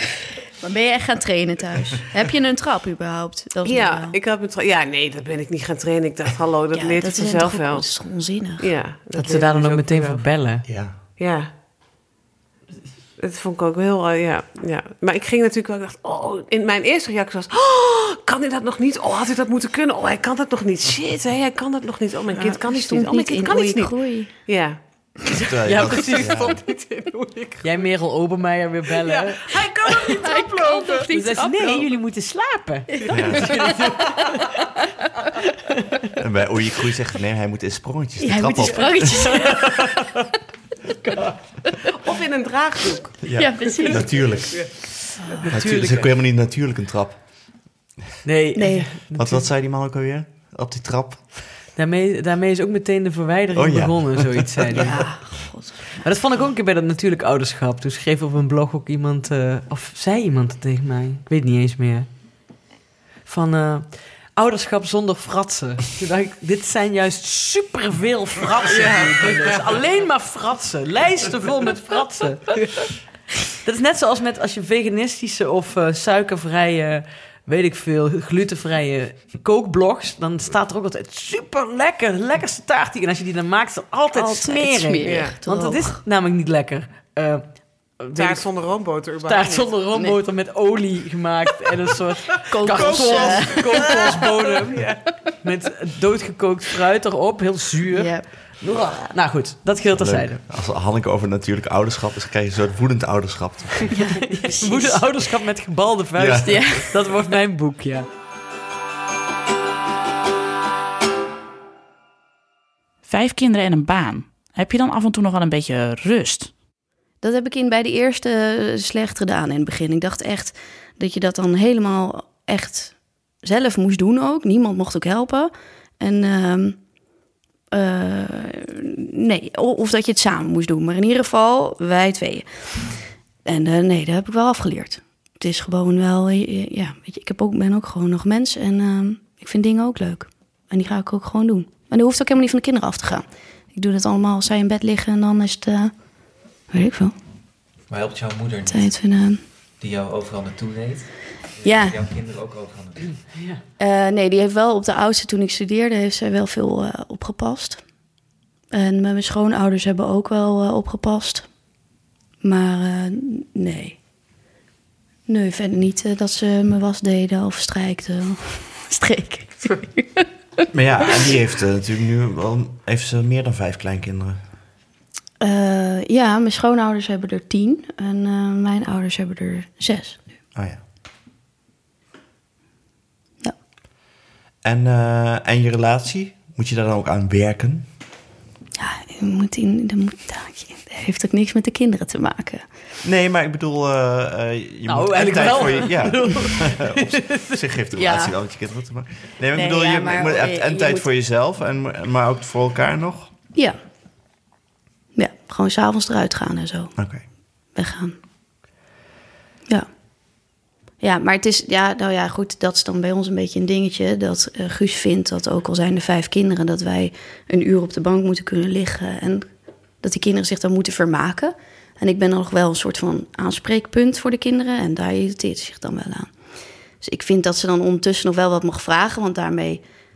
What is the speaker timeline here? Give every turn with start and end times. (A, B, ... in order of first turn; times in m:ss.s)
0:00.6-0:04.2 A
0:03.6-0:07.9 B
0:06.7-0:08.7 A
0:08.6-0:10.2 B
0:09.1-0:10.7 C
0:10.7-0:11.0 D
0:11.2-0:11.5 B
0:13.2-0:27.9 B
0:22.3-0:24.3 A
0:25.4-0:26.6 C
0:25.4-0:26.6 D
0:27.6-0:30.0 C
0:29.0-0:31.1 B
0:30.0-0:31.9 A
0:31.1-0:34.6 C
0:33.0-0:34.4 A
0:33.1-0:33.6 D
0:36.2-0:39.5 D
0:38.2-0:40.1 A
0:39.4-0:40.0 C
0:41.8-0:44.0 B
0:43.2-0:44.7 D
0:43.3-0:44.3 A
0:45.2-0:45.5 A
0:45.3-0:46.1 C
0:45.5-0:47.2 D
0:48.2-0:49.4 C
0:48.6-0:48.9 A
0:49.1-0:51.2 D
0:51.8-0:55.1 C
0:53.5-0:55.0 D
0:54.8-0:56.1 A
0:56.0-1:02.1 C
1:03.2-1:12.5 C
1:08.7-1:09.8 B
1:13.6-1:28.5 C
1:24.1-1:26.0 A
1:25.0-1:25.4 B
1:28.2-1:29.8 B
1:29.2-1:40.4 C
1:32.5-1:34.2 A
1:32.8-1:33.5 D
1:33.3-1:35.0 B
1:37.9-1:38.3 A
1:39.9-1:44.0 D
1:43.9-1:45.0 A
1:44.3-1:48.1 C
1:46.2-1:46.8 D
1:46.4-1:47.0 A
1:53.0-1:56.5 E
1:57.2-2:06.8 A
2:07.7-2:12.9 A
2:13.4-2:25.9 A
2:26.7-2:27.2 A
2:27.9-2:28.9 F
2:28.7-2:29.4 A
2:29.8-2:31.1 F
2:31.6-2:33.2 F
2:31.6-2:32.0 A
2:33.3-2:33.6 C
2:33.8-2:37.8 A
2:38.7-2:41.5 A
2:42.4-2:44.0 A
2:45.3-2:50.6 A
2:50.7-2:54.4 D
2:55.4-3:00.3 A
3:00.6-3:00.8 D
3:04.6-3:07.9 D
3:08.8-3:12.6 A
3:13.0-3:23.3 D
3:14.9-3:17.6 C
3:18.0-3:18.3 A
3:19.5-3:21.1 A
3:25.2-3:27.0 A
3:27.0-3:27.2 D
3:27.8-3:28.2 A
3:31.0-3:39.5 A
3:40.0-3:46.3 A
3:47.0-3:49.8 A